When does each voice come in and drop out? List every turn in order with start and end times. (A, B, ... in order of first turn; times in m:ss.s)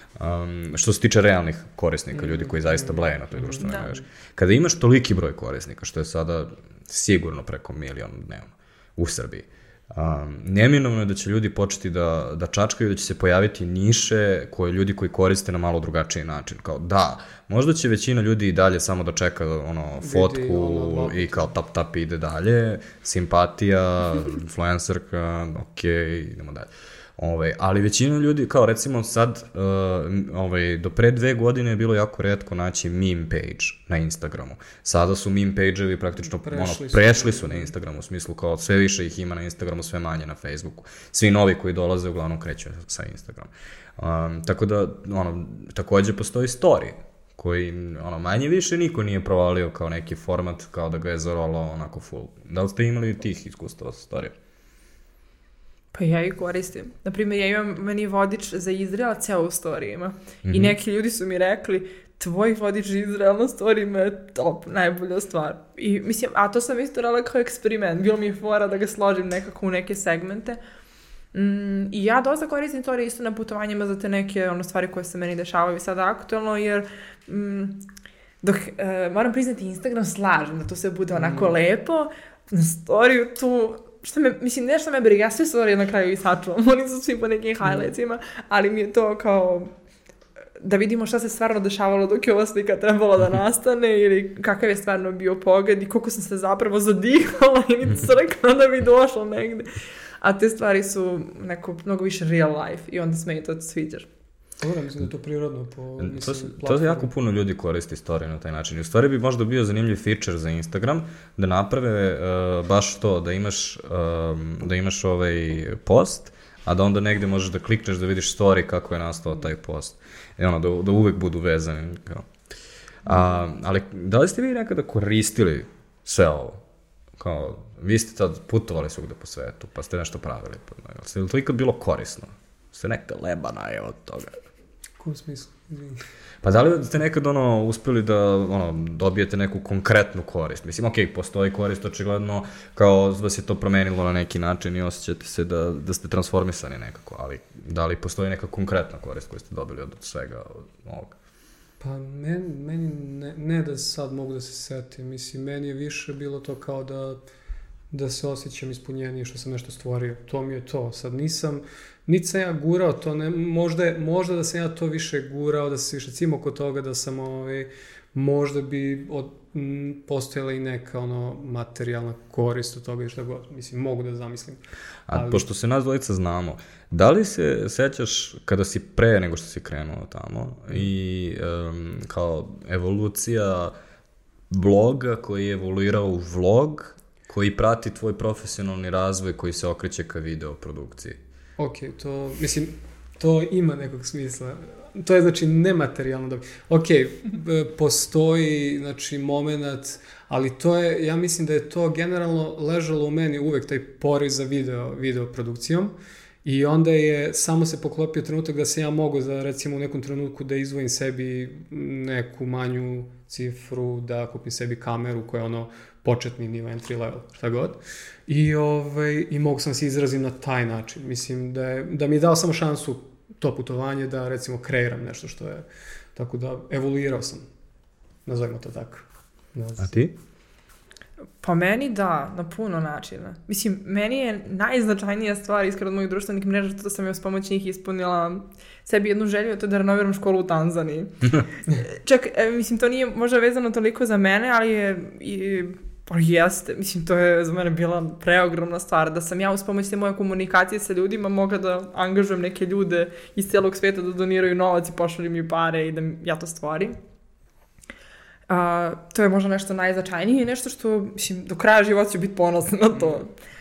0:00.2-0:54.3 A
0:02.2-0:04.0 B
0:20.0-0:21.5 B
0:36.3-0:37.7 B
0:55.9-1:10.6 C
1:00.4-1:00.8 A
1:11.3-1:17.8 C
1:18.4-1:29.7 C
1:21.2-1:21.5 B
1:30.6-1:39.7 C
1:40.2-1:44.1 C
1:44.6-1:47.1 B
1:46.0-2:02.3 A
2:03.0-2:06.6 A
2:07.2-2:14.4 A
2:15.0-2:16.0 B
2:16.4-2:31.1 A
2:31.8-2:37.2 B
2:37.9-2:54.6 B
2:55.1-3:03.7 A
2:55.1-2:55.4 B
3:04.5-3:11.2 A
3:11.6-3:47.4 B
3:48.2-3:49.9 B
3:49.8-3:50.1 A
3:51.4-4:17.0 C
4:18.5-4:23.3 C